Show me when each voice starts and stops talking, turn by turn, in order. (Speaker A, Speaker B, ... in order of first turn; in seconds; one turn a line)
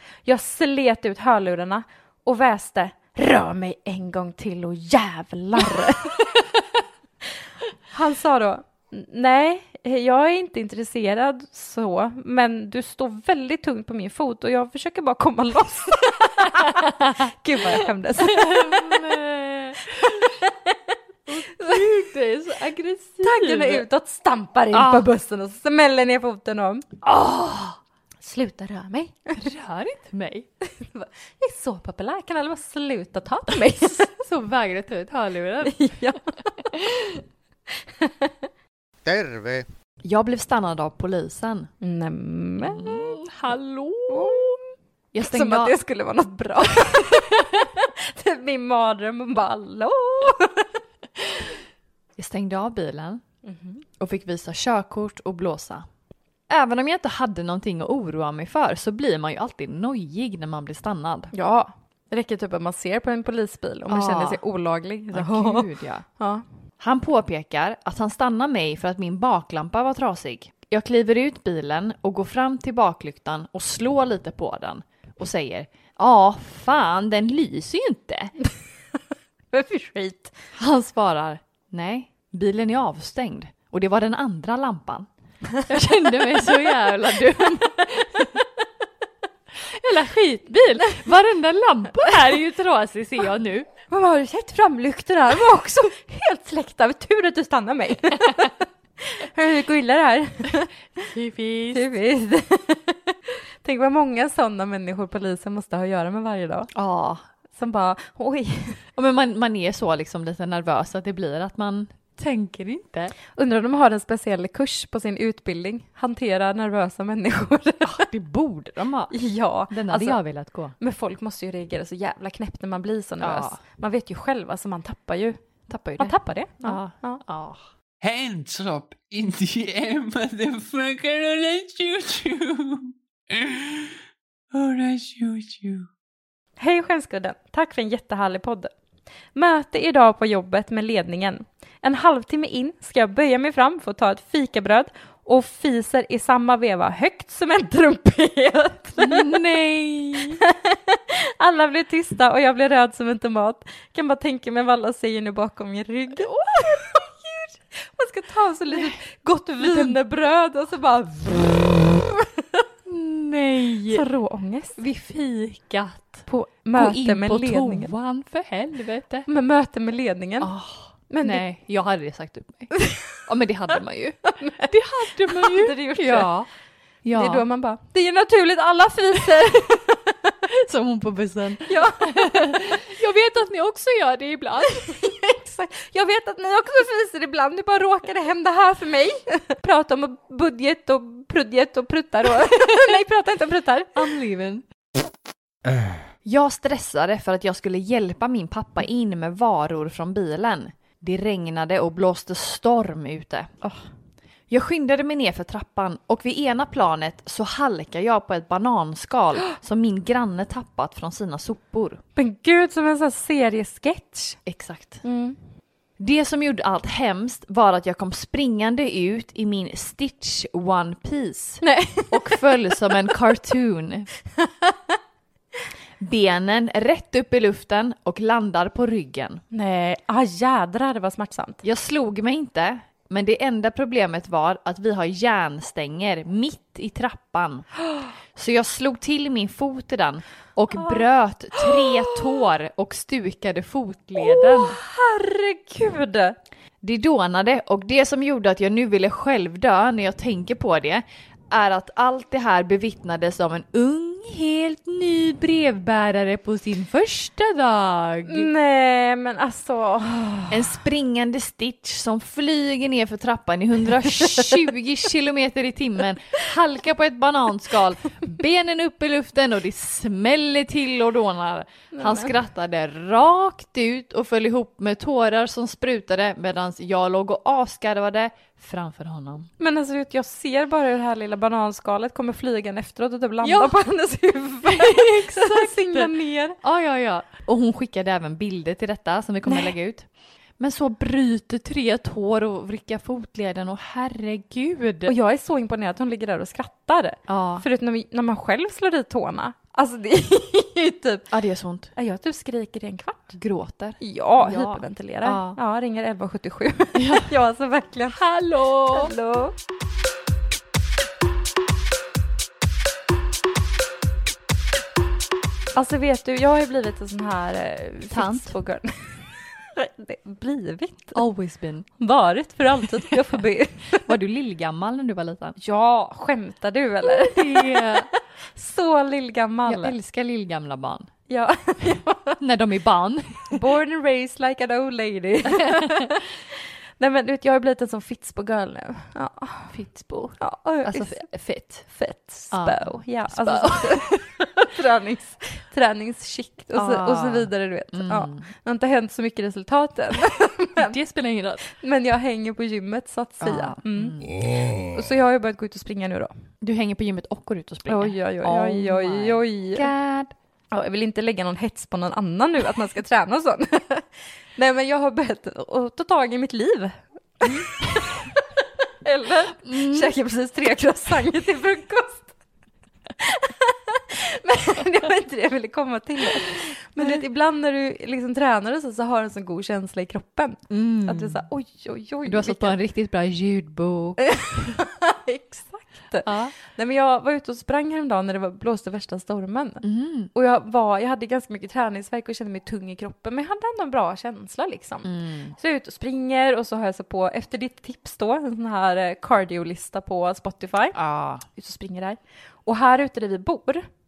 Speaker A: 0.2-6.4
Speaker A: 7.9-19.1
Speaker B: 16.4-17.1
Speaker B: 17.6-20.3
Speaker A: 20.0-20.9
Speaker B: 21.3-23.8
Speaker A: 21.6-21.8
Speaker A: 23.2-26.9
Speaker B: 24.7-25.1
Speaker B: 27.0-27.8
Speaker A: 28.2-29.4
Speaker B: 29.4-30.4
Speaker A: 30.6-34.1
Speaker B: 34.2-35.8
Speaker A: 35.6-38.4
Speaker C: 39.0-39.6
Speaker B: 40.0-41.7
Speaker A: 41.8-43.2
Speaker B: 42.6-44.6
Speaker A: 44.1-44.5
Speaker B: 45.1-45.8
Speaker A: 45.2-50.8
Speaker B: 52.2-53.2
Speaker A: 53.4-53.8
Speaker B: 54.0-55.9
Speaker B: 56.5-61.3
Speaker A: 61.3-66.4
Speaker B: 63.9-64.4
Speaker B: 65.1-66.0
Speaker B: 66.8-78.3
Speaker A: 79.5-80.3
Speaker B: 80.5-85.1
Speaker B: 85.6-88.5
Speaker B: 89.6-93.7
Speaker A: 93.9-100.7
Speaker B: 101.1-101.9
Speaker A: 101.7-106.7
Speaker B: 106.7-107.2
Speaker A: 107.5-108.8
Speaker B: 109.0-113.1
Speaker A: 113.3-118.0
Speaker B: 117.8-119.1
Speaker A: 119.1-120.2
Speaker B: 119.7-120.7
Speaker A: 120.8-125.4
Speaker B: 123.2-123.6
Speaker B: 125.7-127.6
Speaker A: 126.0-127.2
Speaker C: 128.0-134.0
Speaker C: 134.5-135.9
Speaker A: 136.6-138.7
Speaker A: 139.3-149.3
Speaker B: 149.0-150.4
Speaker A: 150.4-162.6
Speaker B: 156.1-157.1
Speaker B: 159.6-160.0
Speaker B: 162.9-164.0
Speaker A: 163.9-164.8
Speaker B: 164.8-169.3
Speaker A: 166.3-167.9
Speaker A: 169.3-170.5
Speaker B: 170.4-176.5
Speaker A: 171.1-171.4
Speaker A: 172.8-173.0
Speaker A: 174.4-176.3
Speaker B: 177.0-177.4
Speaker A: 177.1-180.3
Speaker B: 180.5-185.0
Speaker A: 181.7-182.8
Speaker A: 184.6-194.1
Speaker B: 192.4-192.9
Speaker B: 193.9-194.6
Speaker B: 196.2-203.6
Speaker B: 204.5-212.0
Speaker A: 212.2-214.4
Speaker B: 214.4-215.0
Speaker A: 215.0-215.4
Speaker B: 216.0-224.1
Speaker A: 221.6-222.9
Speaker A: 224.4-224.9
Speaker B: 226.0-229.4
Speaker A: 229.5-231.6
Speaker B: 231.6-237.7
Speaker B: 238.3-244.8
Speaker A: 240.7-242.4
Speaker A: 244.2-246.4
Speaker B: 246.8-258.5
Speaker A: 258.2-260.8
Speaker B: 260.5-279.5
Speaker A: 271.9-272.3
Speaker A: 279.6-286.6
Speaker B: 283.4-283.8
Speaker B: 284.6-290.1
Speaker A: 289.5-289.7
Speaker B: 290.6-295.1
Speaker A: 295.1-301.3
Speaker B: 297.3-297.6
Speaker B: 301.3-301.9
Speaker A: 301.9-303.4
Speaker B: 303.4-305.6
Speaker A: 304.0-308.2
Speaker B: 306.9-307.3
Speaker B: 308.1-309.1
Speaker A: 308.8-309.6
Speaker A: 315.7-321.2
Speaker B: 318.1-318.5
Speaker B: 321.1-321.9
Speaker A: 322.0-324.1
Speaker B: 324.0-325.6
Speaker A: 325.6-329.9
Speaker B: 327.0-328.1
Speaker B: 329.6-331.1
Speaker A: 331.3-332.4
Speaker B: 332.4-333.6
Speaker A: 333.5-339.7
Speaker B: 335.6-336.1
Speaker B: 339.7-341.9
Speaker A: 340.4-341.2
Speaker A: 341.8-350.9
Speaker B: 342.5-344.2
Speaker B: 346.7-348.5
Speaker B: 350.8-351.6
Speaker A: 351.6-356.3
Speaker B: 353.4-354.4
Speaker B: 356.6-360.3
Speaker A: 357.9-359.9
Speaker A: 360.7-372.3
Speaker B: 367.4-367.7
Speaker B: 369.6-370.1
Speaker A: 373.2-382.7
Speaker B: 380.7-381.4
Speaker B: 382.2-384.3
Speaker A: 384.2-389.8
Speaker B: 386.2-386.5
Speaker B: 389.8-390.3
Speaker A: 390.3-400.9
Speaker B: 395.0-395.6
Speaker B: 400.9-401.4
Speaker A: 401.5-403.9